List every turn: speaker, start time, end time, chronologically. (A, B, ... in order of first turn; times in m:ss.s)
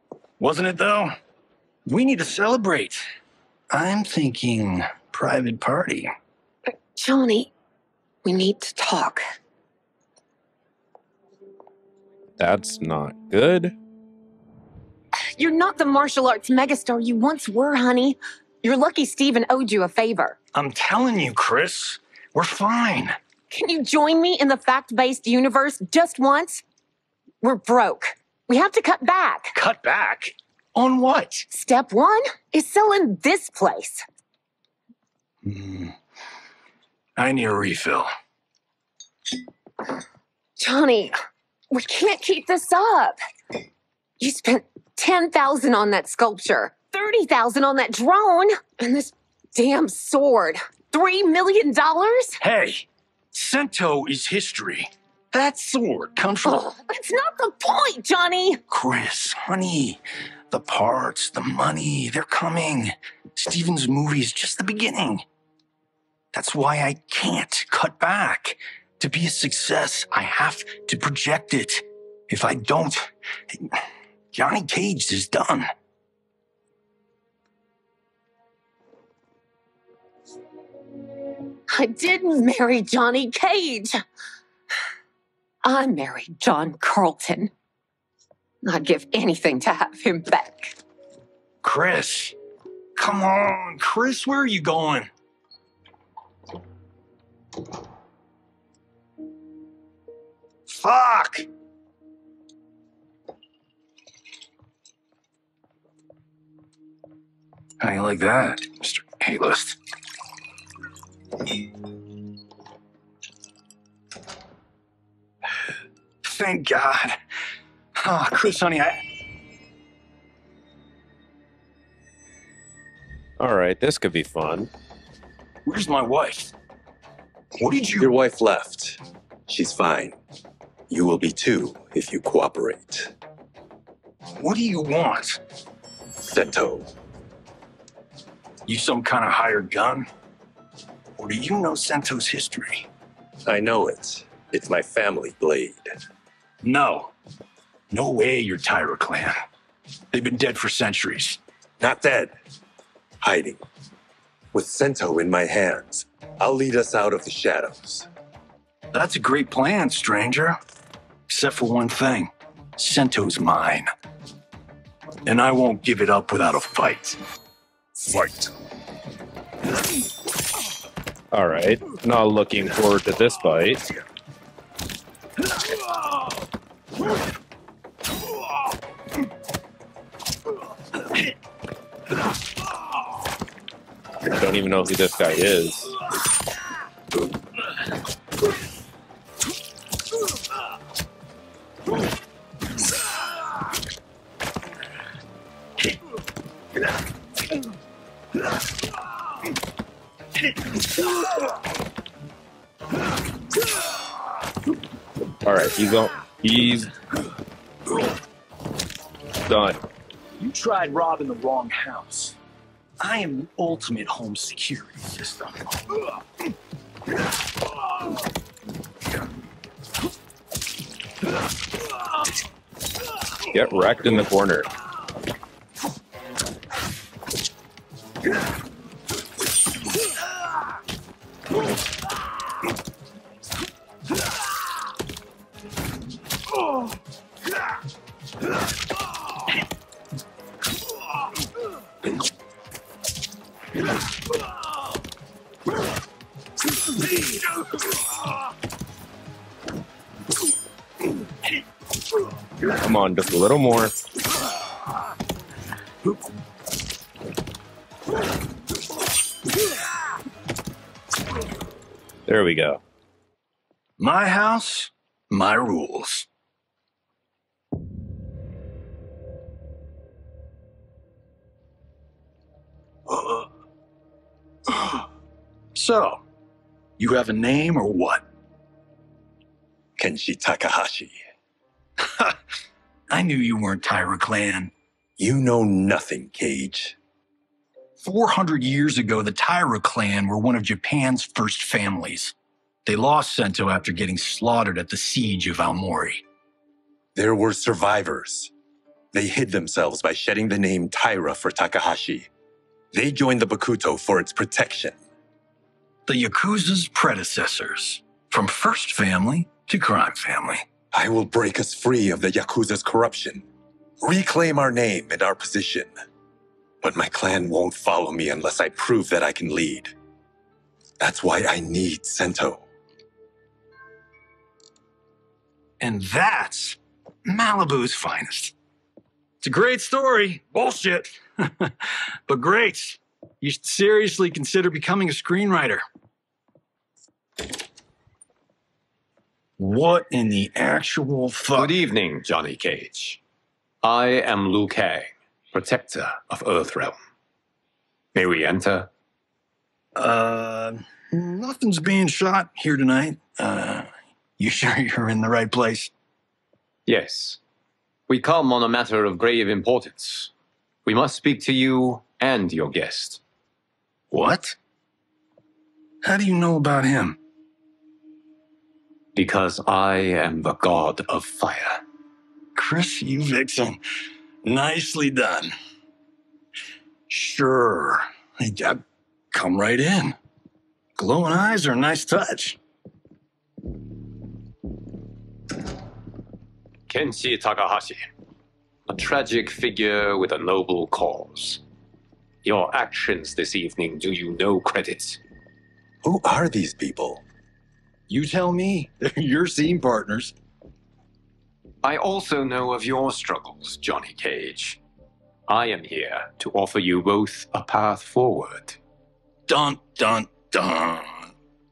0:00.4-0:01.1 A
0:01.8-0:03.0 A
0:03.7-0:06.1 A
0:06.9-0:07.5 B
0:08.2-0:09.2 B
0:12.4-0:13.8 C
0:15.4-0:20.4 B
0:20.5-0:23.2 A
0:23.5-0:26.6 B
0:27.4-0:29.5 B
0:29.5-0:31.5 A
0:31.5-0:34.0 B
0:35.4-0:36.0 A
0:37.2-0:38.1 A
0:40.6-0:41.1 B
0:41.7-0:43.2 B
0:44.2-0:52.4 B
0:52.4-0:56.6 A
0:56.4-0:58.6 B
0:58.7-1:05.2 A
1:06.3-1:15.7 A
1:21.7-1:24.0 B
1:25.6-1:27.5 B
1:28.6-1:30.8 B
1:31.6-1:32.3 A
1:33.0-1:35.1 A
1:40.7-1:41.4 A
1:47.8-1:49.8 A
1:56.2-1:57.2 A
1:57.9-1:59.0 A
2:03.4-2:04.7 C
2:05.6-2:06.5 A
2:07.6-2:08.1 A
2:08.0-2:10.2 D
2:10.9-2:13.1 D
2:14.4-2:15.4 A
2:16.2-2:16.9 D
2:18.6-2:20.1 A
2:21.2-2:22.9 A
2:23.4-2:25.9 D
2:26.6-2:27.1 A
2:27.9-2:29.4 A
2:30.1-2:31.4 A
2:31.8-2:32.4 D
2:33.2-2:33.6 D
2:34.5-2:38.1 D
2:38.9-2:40.6 A
2:41.3-2:43.9 A
2:45.2-2:47.2 A
2:51.3-2:53.9 C
3:04.3-3:05.9 C
3:25.4-3:26.9 C
3:29.4-3:29.8 C
3:30.4-3:32.4 A
3:33.0-3:35.6 A
3:43.5-3:44.7 C
4:12.8-4:13.9 C
4:22.3-4:22.8 C
4:24.0-4:26.3 A
4:33.1-4:33.5 A
4:34.7-4:35.0 A
4:35.7-4:36.2 A
4:37.0-4:38.2 A
4:40.0-4:41.2 D
4:42.0-4:42.4 A
4:43.1-4:44.7 A
4:45.2-4:47.0 D
4:48.0-4:52.3 A
4:52.8-4:56.2 A
4:57.1-4:58.5 D
4:59.1-5:02.3 D
5:02.9-5:05.0 D
5:06.1-5:10.6 A
5:10.9-5:13.4 D
5:14.0-5:15.9 D
5:16.8-5:19.9 D
5:21.0-5:22.6 D
5:25.8-5:28.5 A
5:29.4-5:35.8 A
5:39.6-5:41.8 A
5:41.6-5:43.2 E
5:43.8-5:47.0 E
5:48.1-5:48.9 E
5:50.0-5:55.9 A
5:56.9-5:57.4 E
5:58.1-6:00.3 E
6:00.8-6:03.2 E
6:04.1-6:04.6 A
6:06.0-6:07.2 A
6:09.1-6:11.8 E
6:12.5-6:13.8 A
6:14.4-6:15.5 A
6:17.1-6:18.8 A
6:19.3-6:20.2 A
6:21.0-6:22.6 A
6:26.9-6:28.1 E
6:28.9-6:31.6 E
6:32.4-6:35.2 E
6:36.0-6:37.2 D
6:38.1-6:40.3 A
6:41.8-6:44.8 E
6:45.5-6:48.8 E
6:49.5-6:51.3 A